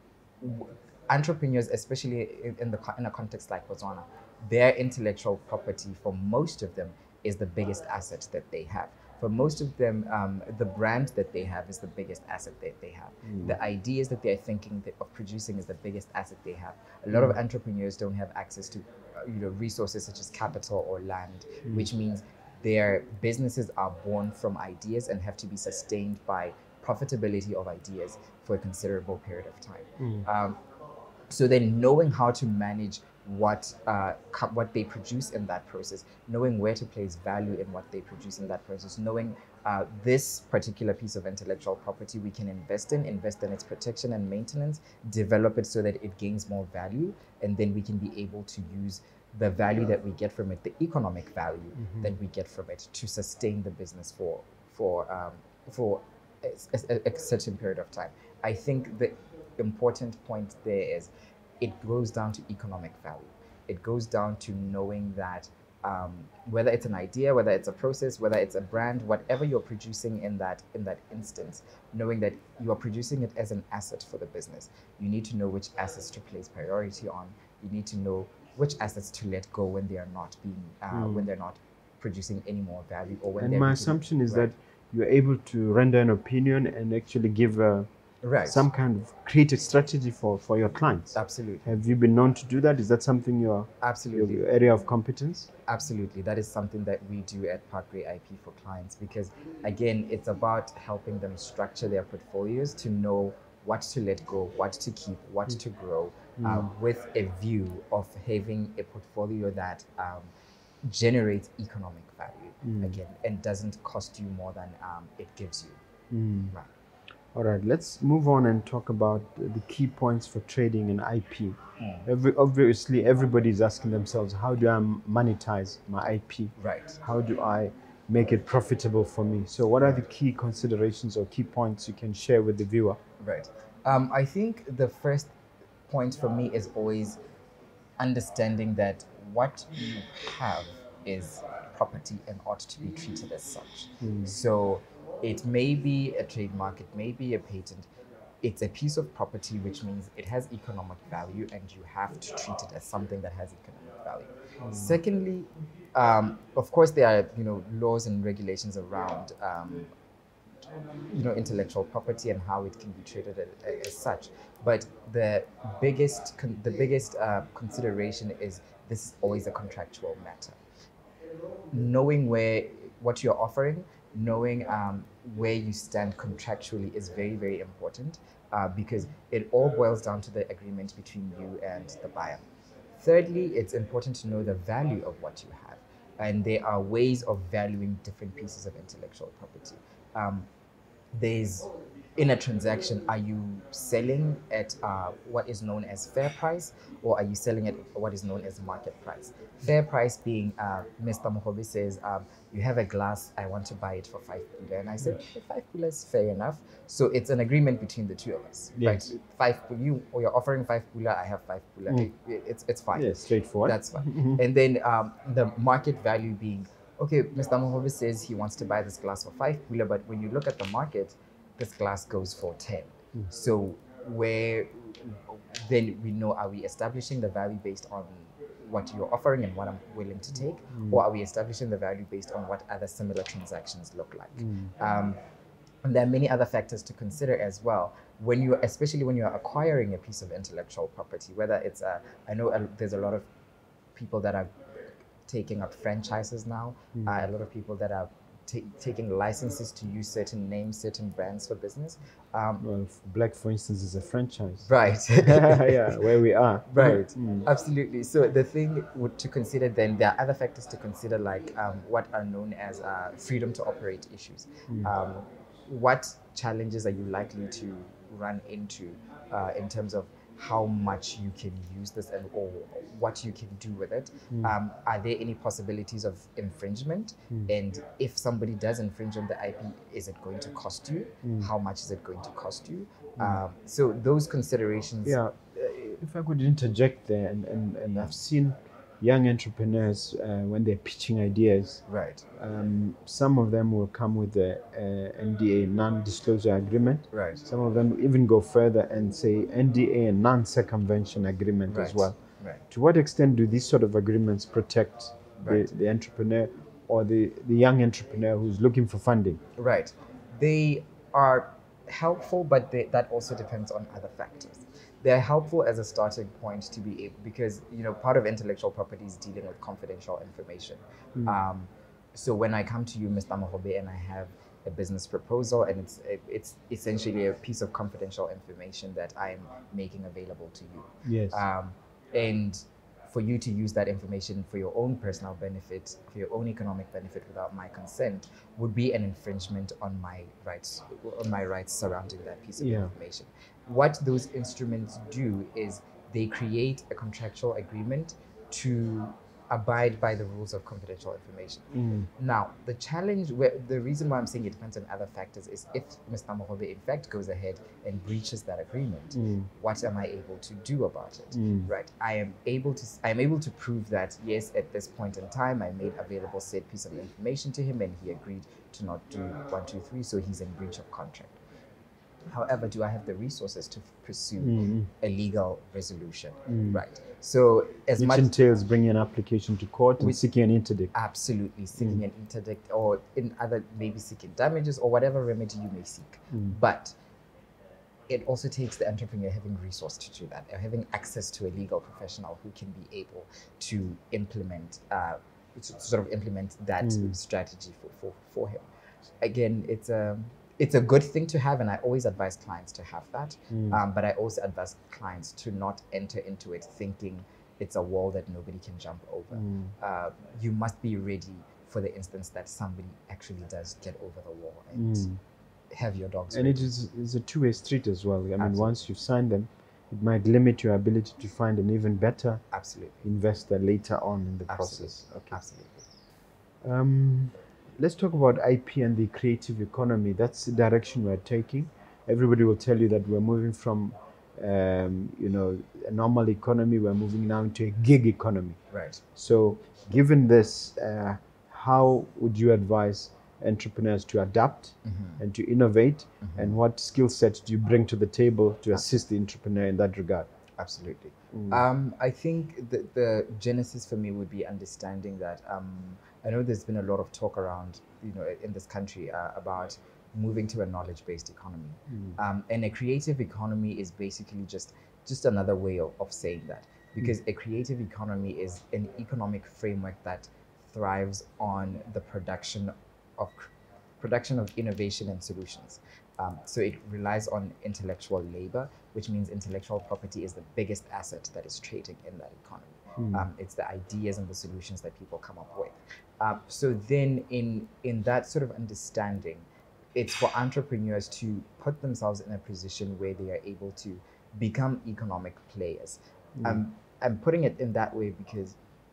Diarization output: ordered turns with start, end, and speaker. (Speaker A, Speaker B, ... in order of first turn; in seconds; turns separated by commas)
Speaker A: 0.4-30.6, Speaker B: 13.2-13.6, Speaker B: 30.0-30.3, Speaker A: 31.3-84.5, Speaker B: 51.8-52.1, Speaker B: 80.9-81.2, Speaker B: 83.4-87.9, Speaker A: 88.2-88.7, Speaker B: 88.4-95.5, Speaker A: 91.1-91.8, Speaker A: 93.8-94.5, Speaker A: 95.7-110.3, Speaker B: 106.4-106.7, Speaker A: 110.8-115.8, Speaker B: 112.6-113.0, Speaker B: 116.1-116.5, Speaker B: 117.3-133.0, Speaker A: 121.8-122.0, Speaker A: 126.6-127.0, Speaker A: 133.2-135.3, Speaker A: 135.9-137.2, Speaker A: 138.0-147.9, Speaker B: 144.0-144.3, Speaker A: 148.4-159.9, Speaker B: 154.6-155.0, Speaker A: 161.1-170.6, Speaker A: 171.7-190.5, Speaker A: 191.1-235.2, Speaker B: 208.8-209.1, Speaker B: 212.9-214.4, Speaker B: 230.7-231.0, Speaker B: 234.4-234.7, Speaker A: 235.8-243.3, Speaker A: 243.9-244.5, Speaker A: 245.2-252.6, Speaker B: 246.9-247.2, Speaker B: 252.6-257.5, Speaker A: 254.6-256.1, Speaker A: 256.7-285.2, Speaker B: 264.7-264.9, Speaker B: 274.3-274.5, Speaker B: 281.2-281.5, Speaker B: 283.2-283.4, Speaker B: 285.0-291.8, Speaker A: 291.9-292.2, Speaker B: 292.4-302.2, Speaker A: 297.1-297.4, Speaker A: 301.7-302.6, Speaker B: 302.7-309.4, Speaker A: 305.4-305.6, Speaker A: 309.6-371.4, Speaker B: 331.0-331.4, Speaker B: 342.6-342.9, Speaker B: 351.7-352.1, Speaker B: 359.1-359.5, Speaker B: 361.3-361.7, Speaker A: 372.3-378.3, Speaker B: 374.4-374.9, Speaker B: 376.5-376.8, Speaker B: 378.0-380.9, Speaker A: 380.9-387.0, Speaker A: 388.1-398.7, Speaker B: 396.8-397.1, Speaker A: 399.2-415.1, Speaker B: 403.5-403.8, Speaker B: 409.3-409.7, Speaker B: 414.7-415.2, Speaker A: 415.7-416.7, Speaker B: 416.3-422.4, Speaker A: 418.4-418.8, Speaker A: 422.5-423.1, Speaker B: 423.0-425.4, Speaker A: 424.5-425.9, Speaker B: 426.6-438.6, Speaker A: 438.7-439.0, Speaker B: 439.1-450.3, Speaker A: 444.8-445.2, Speaker A: 446.2-446.6, Speaker A: 450.6-498.6, Speaker B: 451.3-451.6, Speaker B: 461.9-462.2, Speaker B: 483.0-483.2